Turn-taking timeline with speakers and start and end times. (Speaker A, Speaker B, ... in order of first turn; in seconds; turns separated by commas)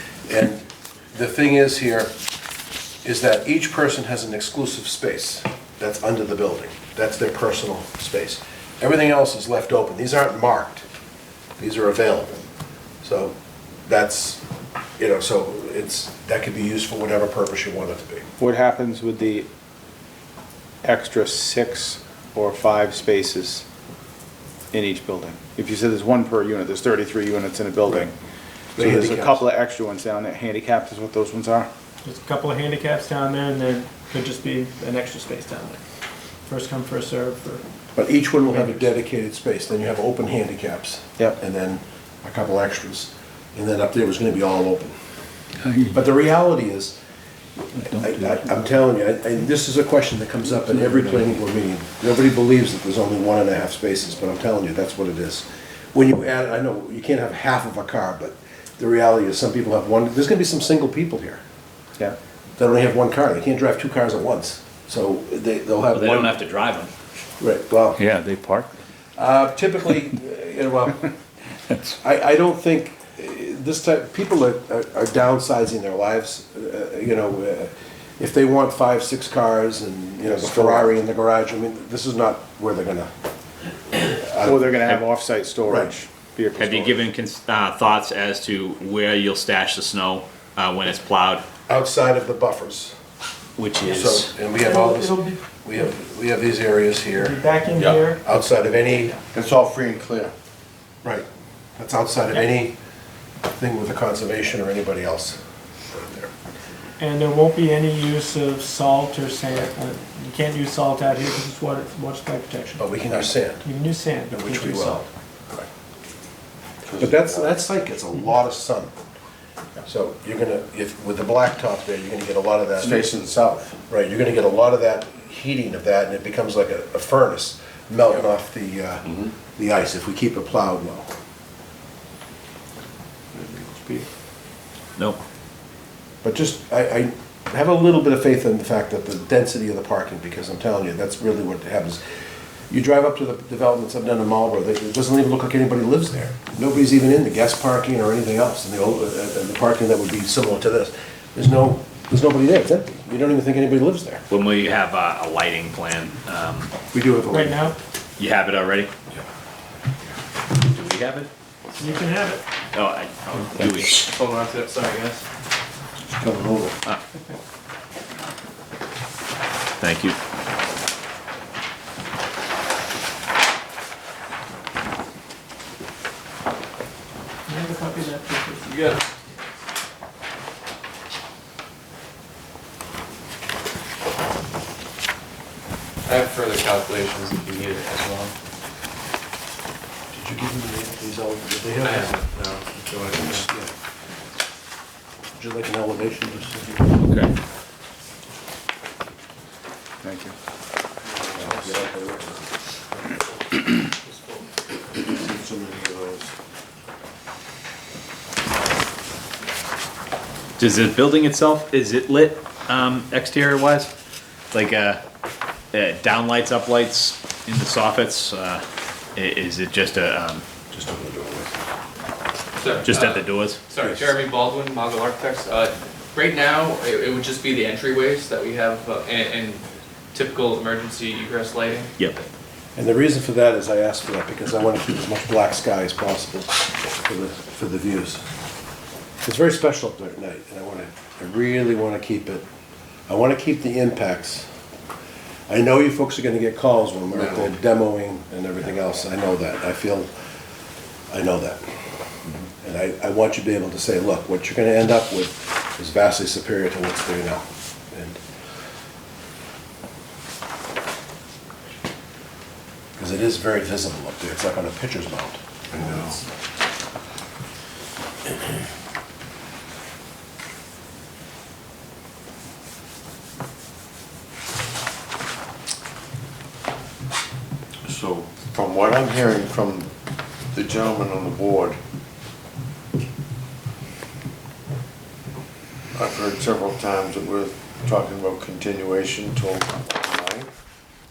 Speaker A: 0.3-2.1, Speaker A: 3.0-10.8, Speaker A: 11.6-12.4, Speaker A: 13.0-13.3, Speaker A: 13.9-14.4, Speaker A: 15.0-18.3, Speaker B: 18.4-19.5, Speaker B: 20.8-23.6, Speaker B: 24.7-28.1, Speaker A: 28.8-29.4, Speaker B: 28.8-31.7, Speaker C: 32.0-35.8, Speaker C: 36.5-37.6, Speaker A: 37.9-44.9, Speaker A: 45.9-47.0, Speaker A: 47.7-61.4, Speaker A: 62.6-66.3, Speaker D: 65.9-66.9, Speaker A: 67.4-68.0, Speaker D: 68.0-68.7, Speaker A: 69.2-71.1, Speaker A: 72.0-83.1, Speaker B: 80.3-80.9, Speaker A: 84.0-84.6, Speaker B: 84.4-87.0, Speaker A: 85.7-85.9, Speaker D: 86.6-91.4, Speaker A: 91.7-92.9, Speaker D: 93.6-94.3, Speaker A: 93.8-97.4, Speaker C: 94.6-95.4, Speaker C: 97.1-98.2, Speaker E: 97.7-98.0, Speaker A: 98.2-99.2, Speaker E: 99.3-100.3, Speaker A: 101.8-102.8, Speaker A: 103.5-105.4, Speaker A: 105.9-106.3, Speaker C: 107.0-115.0, Speaker A: 112.8-113.6, Speaker A: 114.3-115.1, Speaker E: 116.8-117.6, Speaker A: 117.0-118.9, Speaker A: 119.8-123.1, Speaker E: 122.8-123.8, Speaker A: 123.9-131.1, Speaker E: 133.3-134.0, Speaker A: 136.2-142.0, Speaker A: 142.7-154.2, Speaker D: 154.3-156.7, Speaker A: 156.9-157.7, Speaker C: 157.3-157.8, Speaker D: 158.2-158.9, Speaker D: 160.5-161.3, Speaker C: 161.8-162.4, Speaker D: 162.7-164.1, Speaker F: 164.1-165.2, Speaker E: 166.1-166.7, Speaker D: 169.8-170.2, Speaker C: 177.5-178.8, Speaker F: 186.1-188.3, Speaker A: 190.1-192.2, Speaker A: 193.2-193.7, Speaker A: 195.4-196.9, Speaker D: 197.0-197.3, Speaker B: 200.0-200.3, Speaker E: 201.1-201.8, Speaker A: 201.4-202.4, Speaker E: 204.9-206.3, Speaker D: 210.6-213.9, Speaker D: 214.5-215.0, Speaker D: 215.7-218.6, Speaker D: 219.2-220.4, Speaker A: 220.7-221.6, Speaker F: 222.6-223.1, Speaker D: 222.8-223.8, Speaker F: 223.7-231.9, Speaker A: 223.8-224.1, Speaker D: 232.0-232.2, Speaker A: 232.8-238.2, Speaker A: 239.2-242.4, Speaker A: 243.1-244.5, Speaker A: 245.5-250.1, Speaker A: 251.1-251.6, Speaker A: 252.6-258.2, Speaker A: 263.0-266.2, Speaker E: 265.7-266.1, Speaker E: 277.8-279.9, Speaker E: 280.5-281.8, Speaker E: 285.9-290.5